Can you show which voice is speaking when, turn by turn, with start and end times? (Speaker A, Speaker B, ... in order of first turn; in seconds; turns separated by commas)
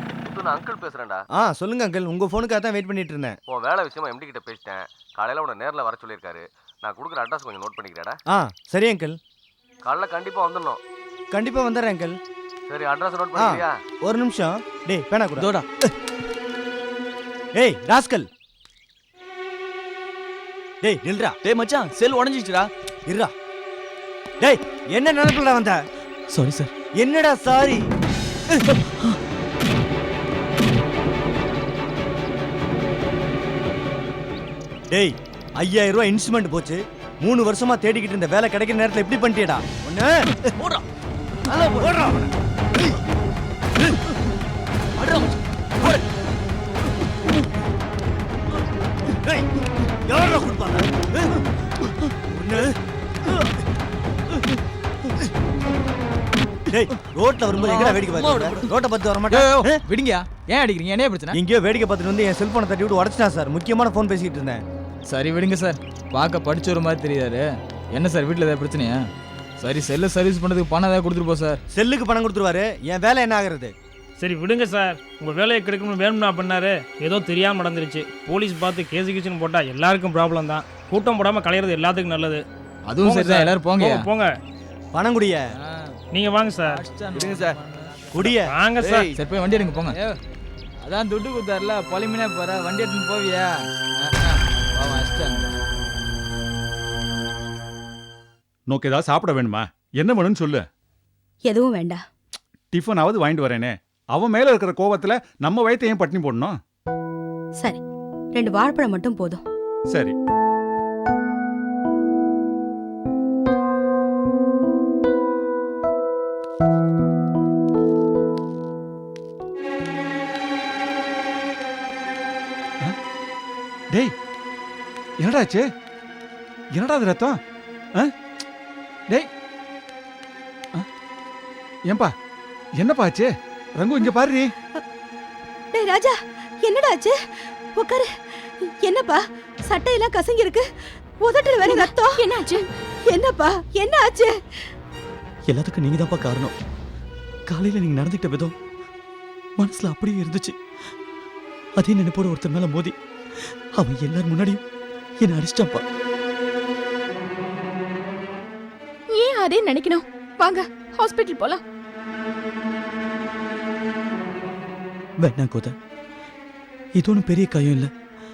Speaker A: 0.2-1.3, Speaker B: 1.3-3.4, Speaker A: 3.5-8.2, Speaker B: 8.3-9.2, Speaker A: 9.8-10.8, Speaker B: 11.3-12.2, Speaker A: 12.7-13.8, Speaker B: 13.3-15.5, Speaker B: 17.5-18.3, Speaker B: 20.8-21.4, Speaker C: 21.5-22.6, Speaker B: 23.1-23.3, Speaker B: 24.4-25.8, Speaker C: 26.3-26.7, Speaker B: 26.9-27.9, Speaker B: 34.9-40.5, Speaker B: 41.5-42.3, Speaker B: 50.1-51.2, Speaker B: 52.3-52.7, Speaker B: 56.7-59.8, Speaker D: 57.6-58.0, Speaker D: 59.4-61.4, Speaker B: 61.3-64.6, Speaker D: 65.1-69.0, Speaker D: 69.6-71.6, Speaker B: 71.7-73.7, Speaker E: 74.2-82.4, Speaker D: 82.9-84.1, Speaker E: 83.0-84.4, Speaker B: 84.9-85.5, Speaker E: 86.1-86.8, Speaker D: 86.7-87.8, Speaker B: 88.1-88.5, Speaker E: 88.5-89.1, Speaker D: 88.8-90.2, Speaker D: 90.8-95.5, Speaker F: 98.7-100.6, Speaker G: 101.5-102.0, Speaker F: 102.7-106.5, Speaker G: 108.3-109.4, Speaker F: 125.2-125.6, Speaker F: 126.7-127.3, Speaker F: 132.8-134.5, Speaker G: 135.7-144.7, Speaker H: 141.7-142.6, Speaker C: 145.5-146.5, Speaker C: 147.5-148.5, Speaker C: 149.6-150.6, Speaker C: 151.8-154.6, Speaker C: 155.2-155.8, Speaker H: 159.1-161.6, Speaker C: 165.2-165.7, Speaker C: 166.9-167.9